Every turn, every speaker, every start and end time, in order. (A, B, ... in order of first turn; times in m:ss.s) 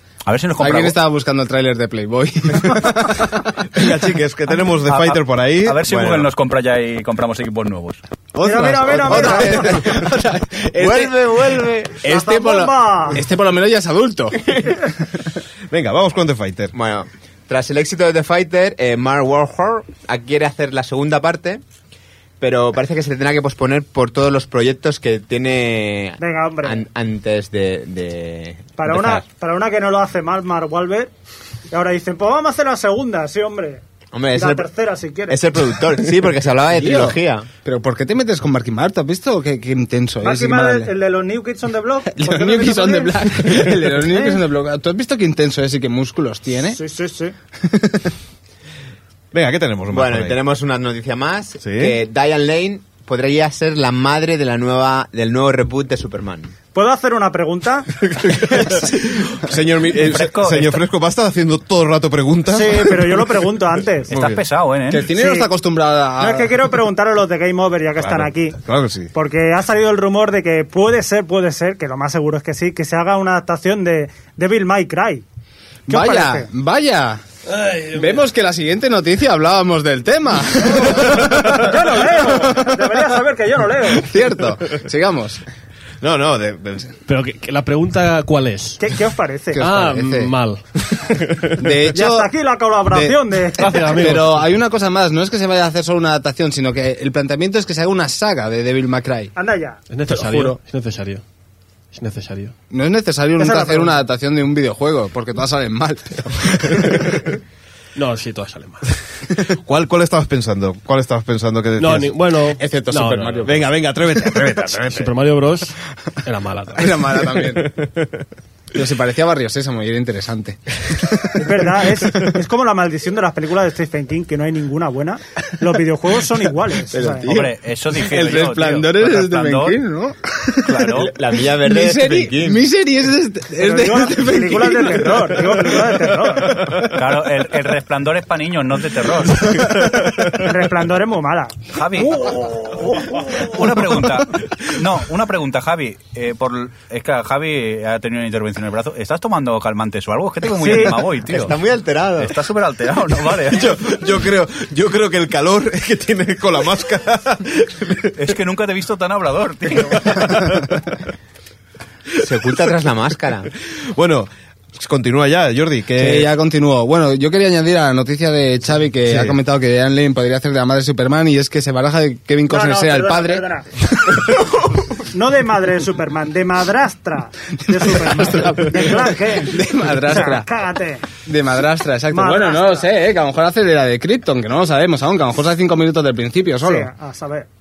0:00.3-0:01.0 A
0:00.6-0:03.9 B
0:03.7-0:05.9 C
0:04.9-0:08.0 A
0:05.9-0:06.3 D
0:08.3-0:14.7 B
0:08.4-0:09.9 E
0:09.2-0:09.8 D
0:10.8-0:12.0 D
0:12.0-0:13.2 E
0:15.7-0:16.7 C
0:16.7-0:21.6 D
0:22.4-0:29.2 D
0:26.2-0:26.8 E
0:28.8-0:31.1 E
0:31.7-0:33.8 E
0:34.1-0:34.7 D
0:34.3-0:35.4 E
0:35.3-0:37.5 D
0:36.7-0:40.9 B
0:40.2-0:44.4 E
0:42.1-0:46.8 B
0:46.7-0:47.4 E
0:47.6-0:48.1 B
0:49.3-0:50.4 C
0:49.9-0:56.5 D
0:51.6-0:52.0 C
0:56.7-0:57.9 E
0:58.0-1:03.3 C
0:59.9-1:00.8 A
1:02.5-1:04.1 E
1:04.1-1:04.4 C
1:04.1-1:05.1 A
1:04.9-1:06.6 B
1:05.2-1:05.5 E
1:06.2-1:08.6 E
1:08.0-1:09.1 C
1:09.1-1:15.2 E
1:15.9-1:17.2 B
1:15.9-1:16.5 E
1:17.5-1:18.1 F
1:17.9-1:21.7 B
1:21.1-1:24.1 E
1:22.2-1:22.9 B
1:23.9-1:25.4 B
1:26.0-1:26.9 C
1:27.1-1:28.8 F
1:28.8-1:29.6 E
1:29.6-1:30.3 B
1:29.6-1:30.6 F
1:31.6-1:32.3 B
1:31.9-1:33.9 E
1:32.9-1:39.3 B
1:33.6-1:34.4 F
1:39.4-1:39.8 E
1:39.9-1:41.2 F
1:40.1-1:40.6 B
1:41.9-1:42.6 F
1:42.7-1:47.1 B
1:43.4-1:44.0 E
1:48.0-1:48.9 F
1:49.6-1:52.1 C
1:51.8-1:53.7 F
1:52.6-1:53.7 B
1:53.4-1:55.1 C
1:54.4-1:55.7 F
1:56.2-1:57.5 F
1:56.8-1:57.7 B
1:58.7-2:02.2 B
2:01.4-2:07.3 E
2:06.9-2:15.8 B
2:07.3-2:09.8 A
2:10.6-2:11.1 A
2:10.9-2:12.6 D
2:13.6-2:16.7 E
2:16.6-2:16.9 B
2:16.9-2:19.6 A
2:20.3-2:23.5 E
2:21.7-2:22.3 A
2:23.2-2:31.6 A
2:30.6-2:31.0 E
2:30.7-2:32.3 D
2:32.2-2:33.8 A
2:33.5-2:38.2 C
2:38.2-2:40.4 A
2:39.9-2:40.7 C
2:42.2-2:43.5 D
2:43.9-2:46.3 C
2:46.0-2:53.5 B
2:49.1-2:49.4 C
2:52.5-2:53.7 E
2:55.1-3:01.0 E
2:57.7-3:00.5 B
3:01.2-3:06.9 B
3:02.1-3:02.9 E
3:06.6-3:07.5 E